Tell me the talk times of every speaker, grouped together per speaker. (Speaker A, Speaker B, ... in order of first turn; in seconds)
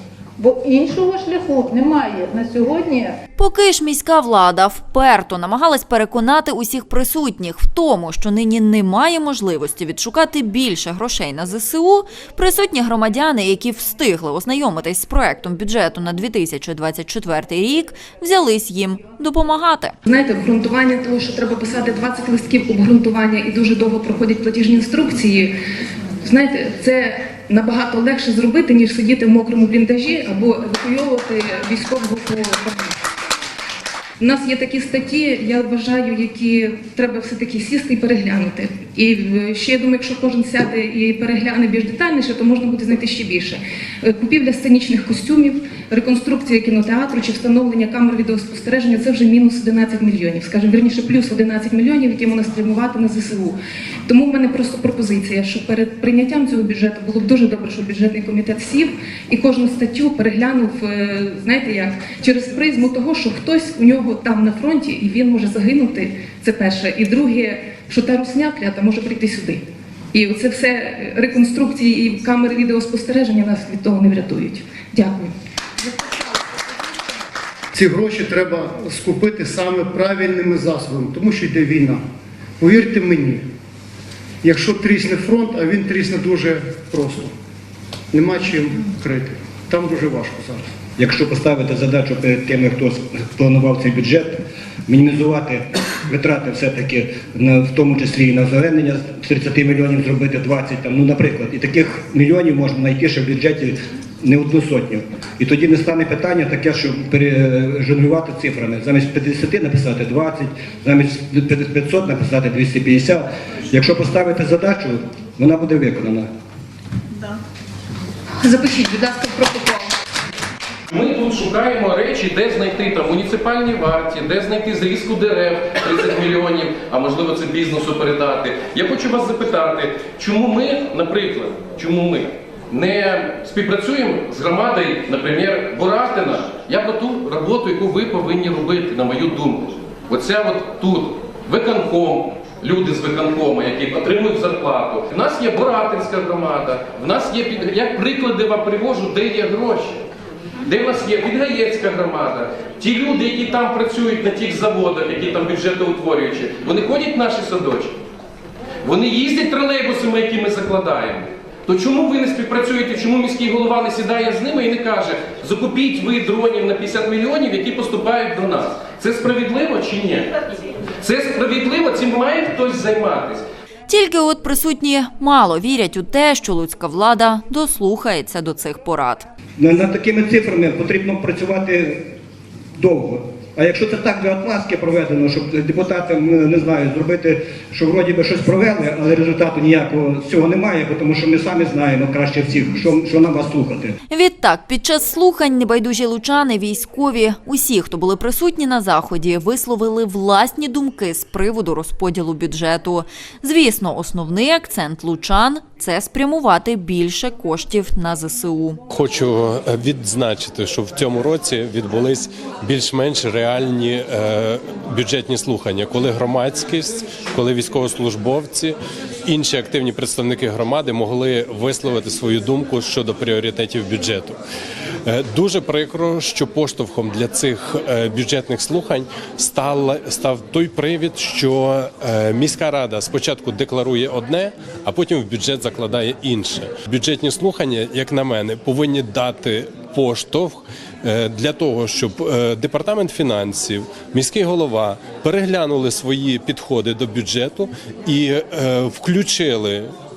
Speaker A: 0.4-3.1
Speaker B: 3.4-19.9, 173.9-179.3, 194.1-208.8
Speaker C: 20.1-25.5, 26.2-32.9, 34.2-53.5, 54.1-75.3, 118.4-119.9
Speaker D: 77.7-82.0, 82.6-83.5, 84.4-87.3, 88.1-90.7
Speaker E: 91.0-116.3, 179.6-182.1, 182.8-193.9
Speaker F: 120.9-150.0, 150.6-157.9, 158.8-170.3, 171.0-173.4
Speaker G: 208.9-224.4, 225.0-249.9